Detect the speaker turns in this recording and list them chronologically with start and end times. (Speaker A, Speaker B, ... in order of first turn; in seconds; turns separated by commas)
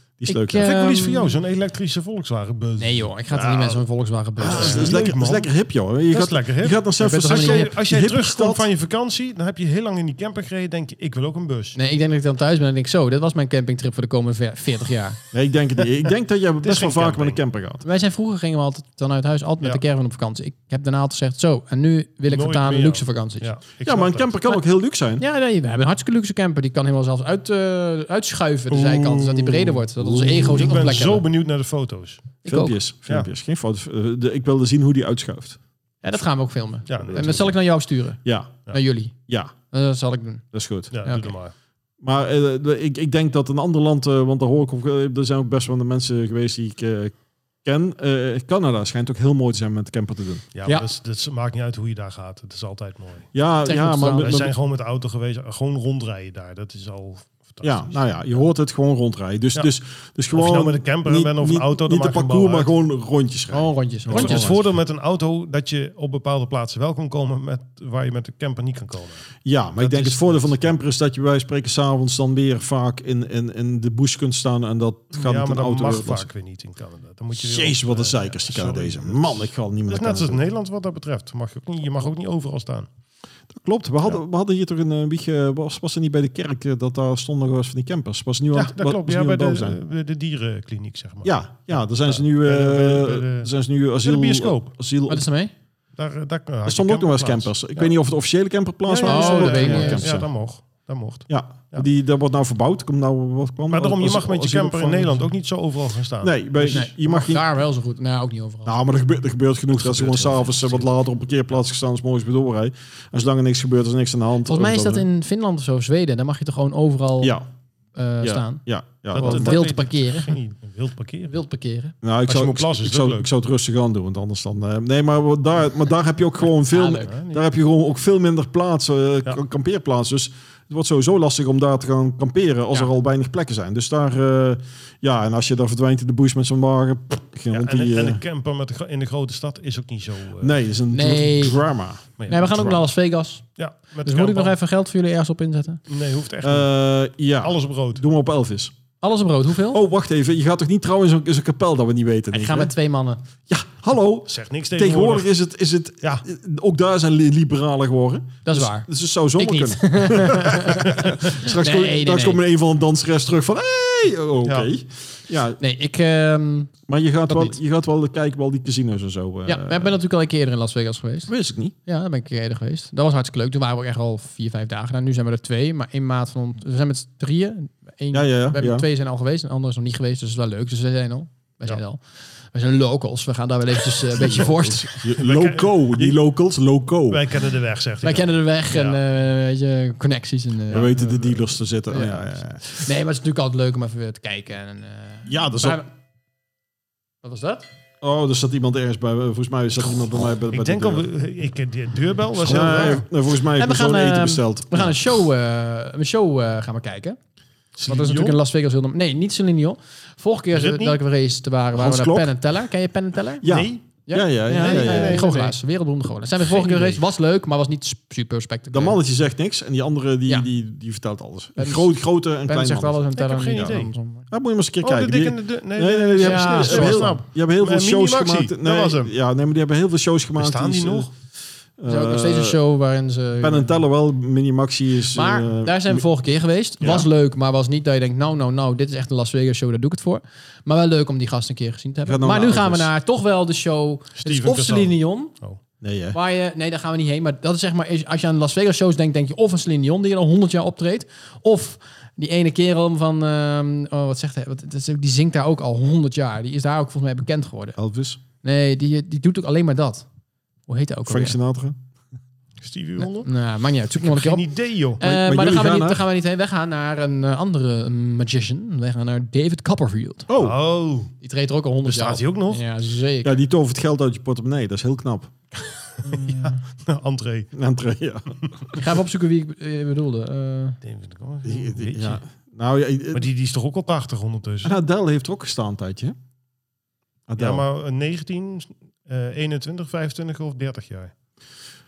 Speaker A: 0.2-0.7, Speaker B: 0.3-1.4, Speaker C: 0.5-3.8, Speaker B: 2.8-5.0, Speaker C: 4.4-5.5, Speaker A: 4.4-8.7, Speaker C: 6.1-11.8, Speaker B: 7.0-7.7, Speaker B: 11.8-15.2, Speaker A: 15.3-17.8, Speaker C: 16.6-17.4, Speaker B: 17.8-23.5, Speaker C: 22.3-24.4, Speaker A: 23.8-25.2, Speaker B: 25.2-31.3, Speaker C: 28.7-32.3, Speaker A: 30.0-30.8, Speaker B: 32.5-32.8, Speaker A: 32.5-35.6, Speaker B: 36.0-39.1, Speaker C: 36.9-37.5, Speaker A: 37.1-37.4, Speaker A: 38.2-38.6, Speaker A: 39.3-39.5, Speaker B: 39.7-40.5, Speaker A: 40.5-41.0, Speaker C: 40.9-41.5, Speaker B: 41.0-41.3, Speaker A: 42.0-50.5, Speaker C: 50.5-53.3, Speaker A: 53.3-54.5, Speaker B: 53.7-54.5, Speaker C: 54.2-58.4, Speaker A: 57.6-64.7, Speaker C: 60.3-62.7, Speaker B: 63.5-64.5, Speaker C: 64.1-70.7, Speaker A: 69.5-76.3, Speaker C: 75.2-82.9, Speaker A: 77.4-80.4, Speaker A: 83.5-89.8, Speaker C: 88.5-94.7, Speaker A: 91.2-95.3, Speaker B: 95.1-95.5, Speaker C: 96.0-97.9, Speaker A: 96.7-100.3, Speaker C: 98.9-101.9, Speaker B: 99.0-100.1, Speaker A: 101.3-105.3, Speaker C: 103.7-106.8, Speaker A: 106.2-107.4, Speaker B: 106.7-108.8, Speaker A: 108.7-115.0, Speaker C: 109.8-110.8, Speaker B: 114.5-117.4, Speaker A: 117.2-117.5, Speaker B: 118.0-120.4, Speaker A: 118.2-119.6, Speaker C: 119.2-121.3, Speaker B: 121.3-122.0, Speaker A: 122.0-138.2, Speaker C: 122.3-123.3, Speaker B: 126.7-127.1, Speaker C: 127.1-127.4, Speaker C: 137.5-140.6, Speaker A: 140.4-142.8, Speaker B: 140.9-141.6, Speaker B: 142.3-143.5, Speaker C: 143.6-144.5, Speaker B: 144.0-145.8, Speaker C: 145.9-146.7, Speaker A: 146.4-148.7, Speaker C: 147.4-148.0, Speaker B: 149.0-149.8, Speaker A: 149.7-152.7, Speaker B: 152.3-153.2, Speaker A: 153.5-165.6, Speaker C: 154.3-155.3, Speaker B: 158.4-162.4, Speaker C: 164.4-164.7, Speaker B: 165.6-166.7, Speaker A: 166.9-169.9, Speaker B: 167.3-167.6, Speaker B: 169.5-171.3, Speaker A: 171.3-171.7, Speaker B: 171.9-185.1, Speaker A: 178.1-178.9, Speaker A: 184.2-187.2, Speaker C: 185.2-186.2, Speaker C: 187.1-189.0, Speaker B: 188.0-191.2, Speaker C: 190.7-191.2, Speaker A: 190.7-192.7, Speaker B: 191.9-195.9, Speaker A: 195.3-195.8, Speaker B: 197.2-197.7, Speaker A: 198.0-201.1, Speaker C: 200.5-203.1, Speaker A: 202.4-205.2, Speaker B: 203.6-207.2, Speaker C: 207.8-208.4, Speaker B: 207.9-213.5, Speaker C: 210.5-211.0, Speaker A: 211.7-212.3, Speaker A: 213.4-215.3, Speaker C: 213.4-213.8, Speaker B: 214.1-219.0, Speaker C: 214.5-215.6, Speaker C: 216.4-217.0, Speaker A: 218.7-223.1, Speaker B: 221.6-221.9, Speaker B: 222.4-224.3, Speaker C: 223.2-223.9, Speaker A: 224.3-231.1, Speaker C: 224.8-229.1, Speaker B: 226.2-227.2, Speaker C: 230.4-231.1, Speaker A: 231.8-232.6, Speaker B: 231.9-233.8, Speaker A: 233.4-236.0, Speaker B: 235.1-245.3, Speaker C: 236.8-237.1, Speaker A: 236.8-237.1, Speaker A: 242.1-242.9, Speaker C: 244.2-245.6, Speaker A: 245.8-246.2, Speaker B: 246.1-257.8, Speaker A: 257.8-258.2, Speaker B: 258.4-260.1, Speaker B: 260.7-261.4, Speaker A: 261.1-261.8, Speaker C: 262.6-263.3, Speaker B: 263.0-264.5, Speaker C: 264.0-265.0, Speaker B: 265.0-270.3, Speaker A: 265.0-266.1, Speaker A: 270.3-270.6, Speaker C: 270.4-271.1, Speaker B: 271.2-273.4, Speaker C: 271.9-272.6, Speaker A: 273.2-275.3, Speaker C: 276.0-277.5, Speaker B: 276.0-276.6, Speaker A: 277.5-278.8, Speaker B: 278.8-280.8, Speaker C: 280.8-282.2, Speaker A: 281.4-283.3, Speaker C: 283.1-284.8, Speaker A: 284.6-286.2, Speaker A: 287.3-287.6, Speaker C: 287.4-291.1